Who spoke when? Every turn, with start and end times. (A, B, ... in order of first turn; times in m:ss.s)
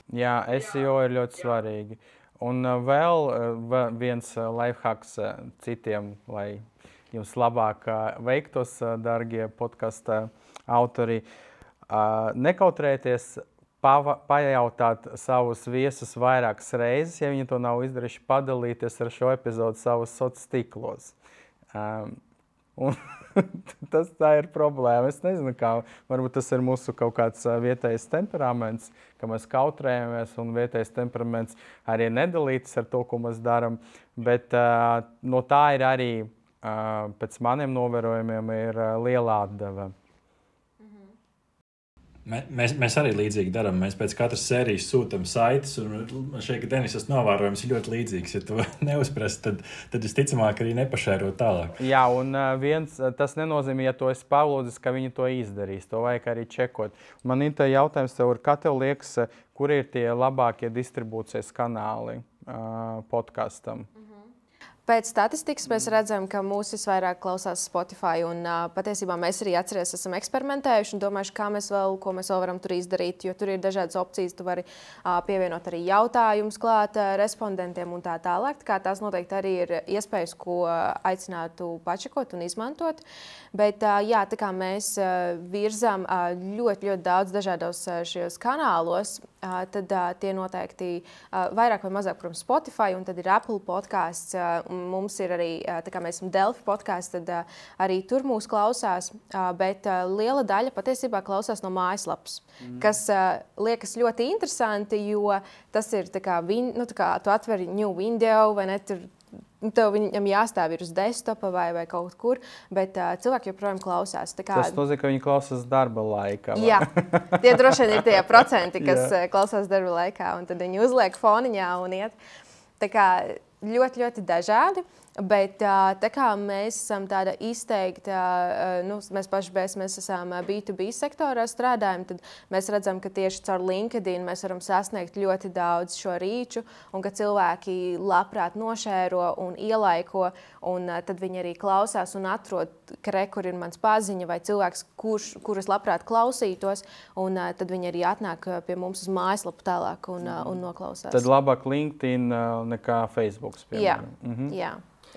0:00.1-0:11.2 A
0:11.9-0:21.2 A
0:21.7-0:22.2 A
0:22.8-0:39.9 A
0:42.3-0:51.8 B
0:51.8-1:03.9 A
1:04.9-1:54.8 C
1:42.6-1:42.9 A
1:54.5-1:59.1 A
1:56.6-2:02.2 C
2:02.8-2:31.3 C
2:31.1-2:34.6 A
2:33.7-2:34.8 C